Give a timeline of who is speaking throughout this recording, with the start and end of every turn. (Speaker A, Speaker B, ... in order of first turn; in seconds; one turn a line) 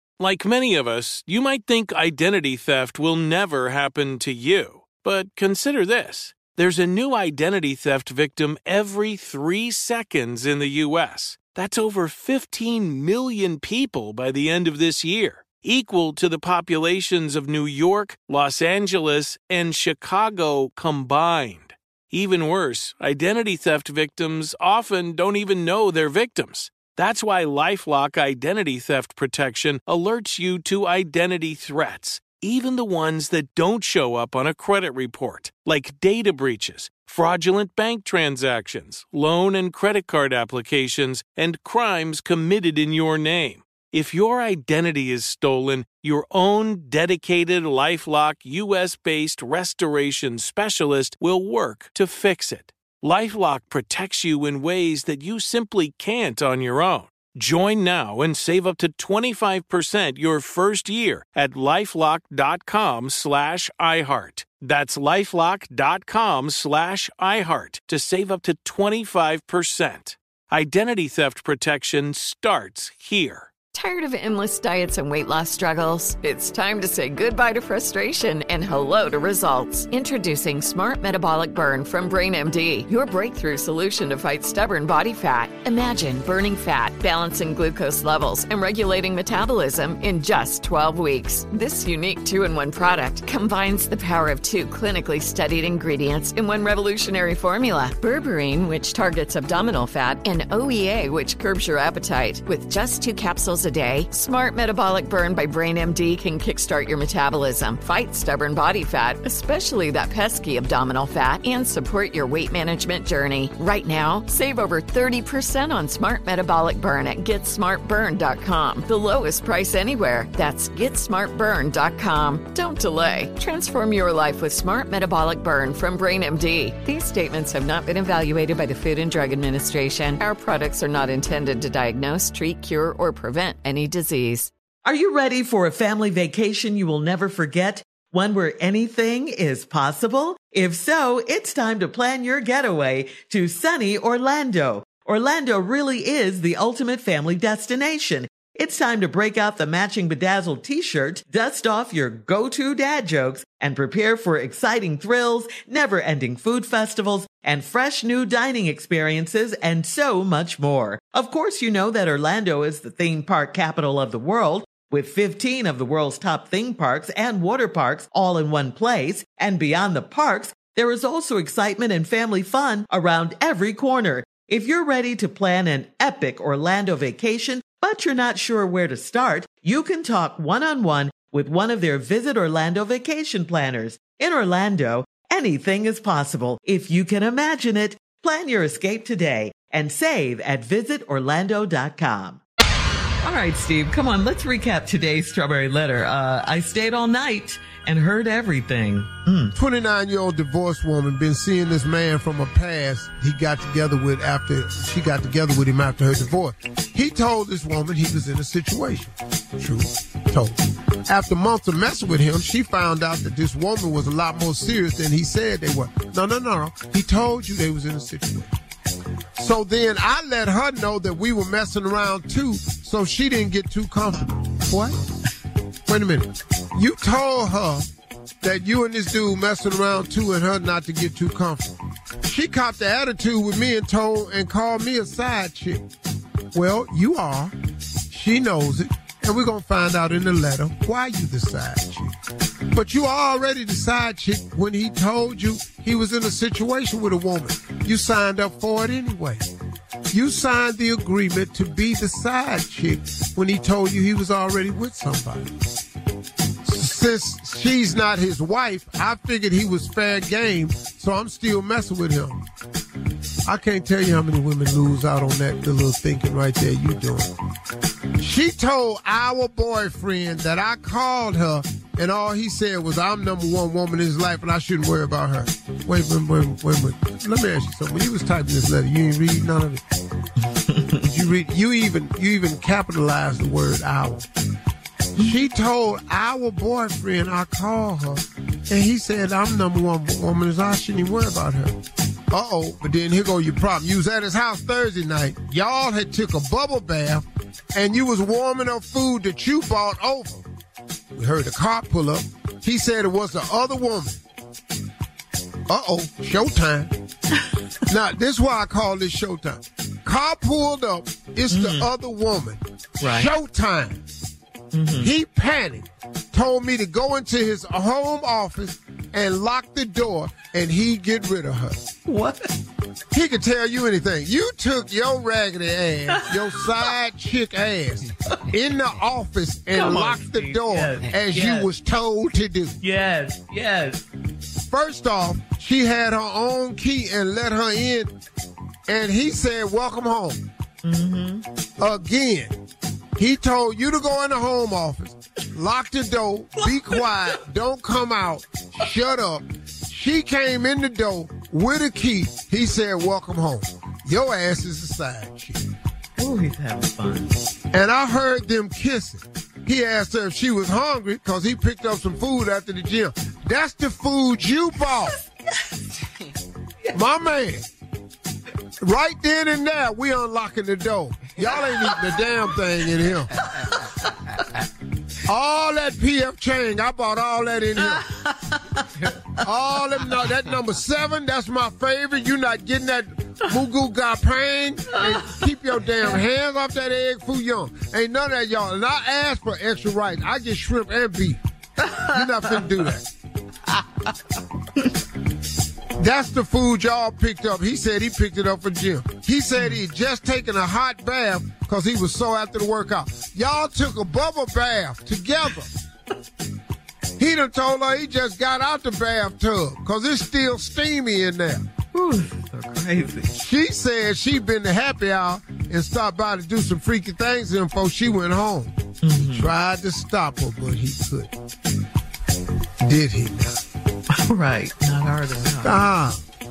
Speaker A: 0.2-73.5
Speaker B: 73.7-134.5
Speaker C: 134.8-192.4
Speaker C: 193.2-199.5
Speaker D: 199.6-218.6
Speaker D: 219.4-225.0
Speaker D: 225.9-227.9
Speaker D: 228.4-235.9
Speaker D: 236.5-237.6
Speaker D: 238.1-242.2
Speaker D: 242.7-249.5
Speaker D: 250.1-255.6
Speaker D: 256.6-262.4
Speaker D: 263.5-267.3
Speaker D: 268.2-279.8
Speaker C: 280.7-281.1
Speaker D: 281.1-284.3
Speaker D: 285.1-291.8
Speaker D: 292.3-300.5
Speaker D: 301.1-304.2
Speaker D: 305.7-306.9
Speaker D: 307.9-314.0
Speaker C: 311.5-311.9
Speaker C: 313.0-313.3
Speaker C: 314.7-315.1
Speaker D: 315.0-321.9
Speaker C: 322.1-322.6
Speaker D: 323.1-332.8
Speaker C: 329.7-331.7
Speaker C: 332.8-334.1
Speaker D: 334.7-338.1
Speaker D: 338.9-340.4
Speaker C: 340.8-341.4
Speaker D: 341.8-342.6
Speaker D: 343.2-355.7
Speaker C: 356.2-357.3
Speaker D: 357.7-365.2
Speaker D: 366.9-367.7
Speaker D: 368.8-373.3
Speaker C: 373.5-374.4
Speaker D: 375.3-378.1
Speaker C: 378.3-378.9
Speaker D: 379.4-391.4
Speaker C: 391.8-392.7
Speaker D: 392.0-393.1
Speaker C: 393.7-394.1
Speaker D: 396.0-405.7
Speaker D: 407.2-411.7
Speaker C: 411.9-413.3
Speaker D: 413.3-421.3
Speaker C: 419.0-419.5
Speaker D: 422.8-423.6
Speaker C: 424.1-425.9
Speaker D: 425.6-426.2